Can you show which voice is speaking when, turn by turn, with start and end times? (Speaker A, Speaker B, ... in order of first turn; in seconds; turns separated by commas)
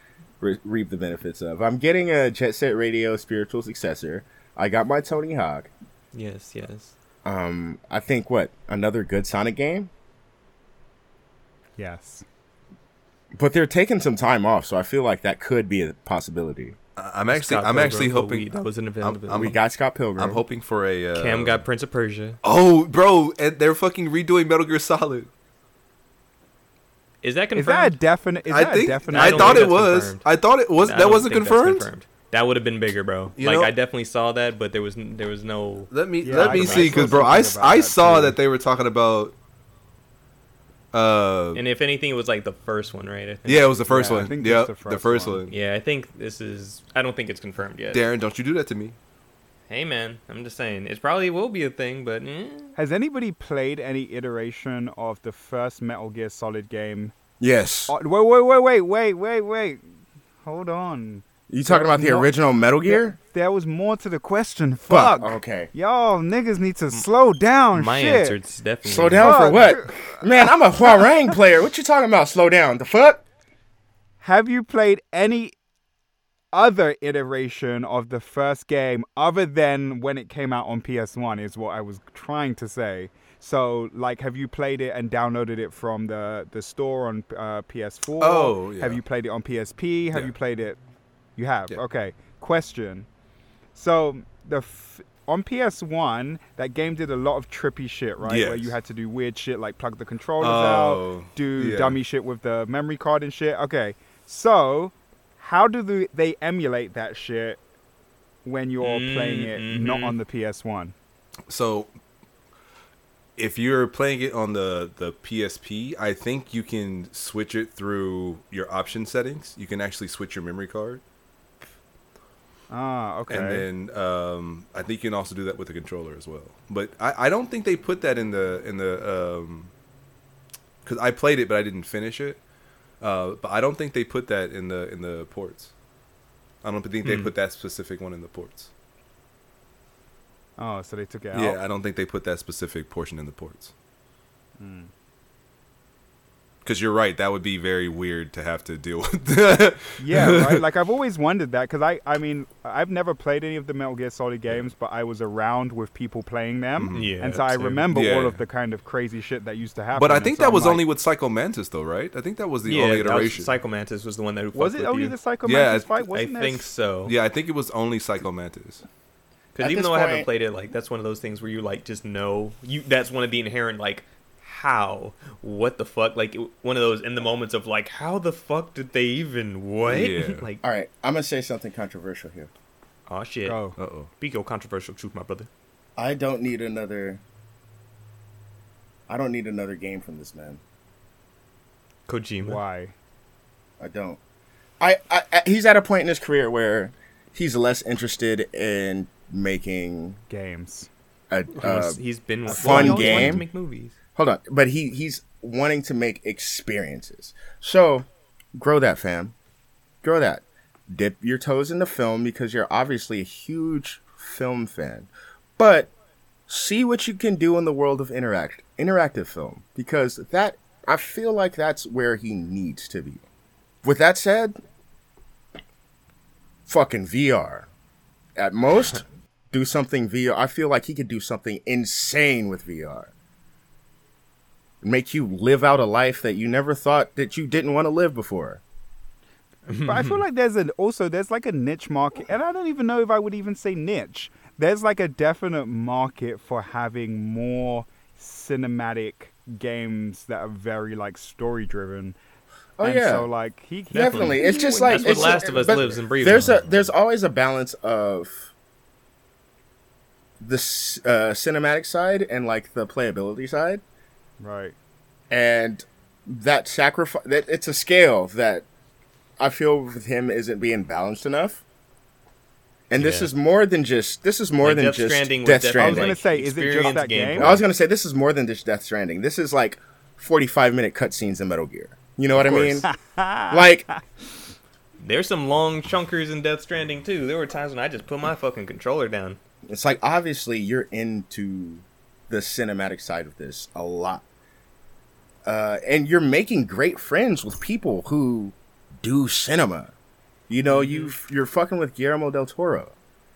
Speaker A: 0.4-5.7, Speaker B: 6.1-6.9, Speaker A: 7.2-9.9, Speaker C: 11.8-12.2, Speaker A: 13.4-16.8, Speaker D: 17.0-19.6, Speaker B: 17.3-19.6, Speaker A: 19.3-20.4, Speaker D: 20.2-21.6, Speaker B: 21.1-22.4, Speaker D: 22.4-25.3, Speaker B: 27.2-28.0, Speaker C: 27.6-29.8, Speaker D: 28.5-31.9, Speaker B: 29.1-30.2, Speaker B: 30.8-37.3, Speaker D: 33.4-33.7, Speaker D: 35.9-39.4, Speaker C: 36.2-38.4, Speaker D: 40.9-41.6, Speaker B: 41.5-43.8, Speaker D: 43.5-45.5, Speaker C: 43.9-45.4, Speaker B: 45.5-48.1, Speaker D: 47.9-49.0, Speaker B: 49.7-52.8, Speaker C: 52.8-57.1, Speaker A: 57.4-57.9, Speaker C: 57.9-59.8, Speaker C: 60.4-62.3, Speaker A: 61.5-63.2, Speaker C: 62.9-68.4, Speaker A: 64.9-65.7, Speaker B: 67.7-69.7, Speaker A: 68.8-73.2, Speaker C: 69.2-70.2, Speaker C: 74.2-75.5, Speaker C: 76.5-90.8, Speaker D: 88.2-89.0, Speaker C: 91.4-93.1, Speaker C: 93.8-107.6, Speaker D: 98.2-98.8, Speaker D: 100.4-102.0, Speaker C: 108.5-110.9, Speaker B: 108.8-110.2, Speaker D: 111.5-111.9, Speaker D: 113.4-121.0, Speaker C: 122.7-123.7, Speaker D: 123.3-129.7, Speaker D: 130.8-132.4, Speaker D: 133.0-135.7, Speaker D: 136.6-138.7, Speaker B: 137.0-137.3, Speaker C: 140.6-141.6, Speaker D: 141.3-143.7, Speaker C: 144.6-144.9, Speaker D: 146.7-150.6, Speaker C: 150.0-160.8, Speaker D: 156.8-157.2, Speaker B: 156.9-157.8, Speaker D: 157.9-158.4, Speaker D: 159.9-163.5, Speaker B: 162.7-165.2, Speaker C: 164.5-166.7, Speaker D: 165.4-166.0, Speaker B: 166.1-167.1, Speaker D: 167.1-168.8, Speaker B: 169.6-180.6, Speaker A: 169.6-170.3, Speaker D: 179.8-180.4, Speaker A: 180.6-182.5, Speaker B: 183.1-183.6, Speaker C: 183.4-183.8, Speaker D: 183.8-184.1, Speaker B: 184.2-185.5, Speaker A: 186.0-187.2, Speaker A: 189.1-190.6, Speaker B: 192.1-192.6, Speaker C: 192.4-192.9, Speaker A: 193.8-194.2, Speaker A: 194.8-200.2, Speaker C: 200.3-200.9, Speaker A: 201.3-203.4, Speaker B: 201.6-204.0, Speaker C: 202.5-203.4, Speaker A: 204.2-209.3, Speaker A: 210.0-215.9, Speaker A: 216.5-223.2, Speaker A: 223.8-224.6, Speaker A: 226.7-227.7, Speaker A: 228.4-233.1, Speaker A: 234.8-238.6, Speaker B: 239.7-240.2, Speaker C: 239.8-252.2, Speaker A: 252.8-253.3, Speaker C: 252.8-255.9, Speaker B: 253.9-256.7, Speaker A: 253.9-258.5, Speaker A: 260.4-263.8, Speaker C: 264.4-264.8, Speaker A: 265.3-268.7, Speaker A: 269.4-271.6, Speaker A: 272.9-276.2, Speaker B: 273.0-273.3, Speaker B: 274.6-277.6, Speaker C: 275.8-277.6, Speaker A: 277.4-282.9, Speaker B: 282.4-282.8, Speaker C: 282.9-284.0, Speaker A: 283.5-283.9, Speaker B: 285.0-289.4, Speaker A: 289.7-294.2, Speaker A: 295.5-299.9, Speaker A: 300.5-302.9, Speaker B: 300.7-301.1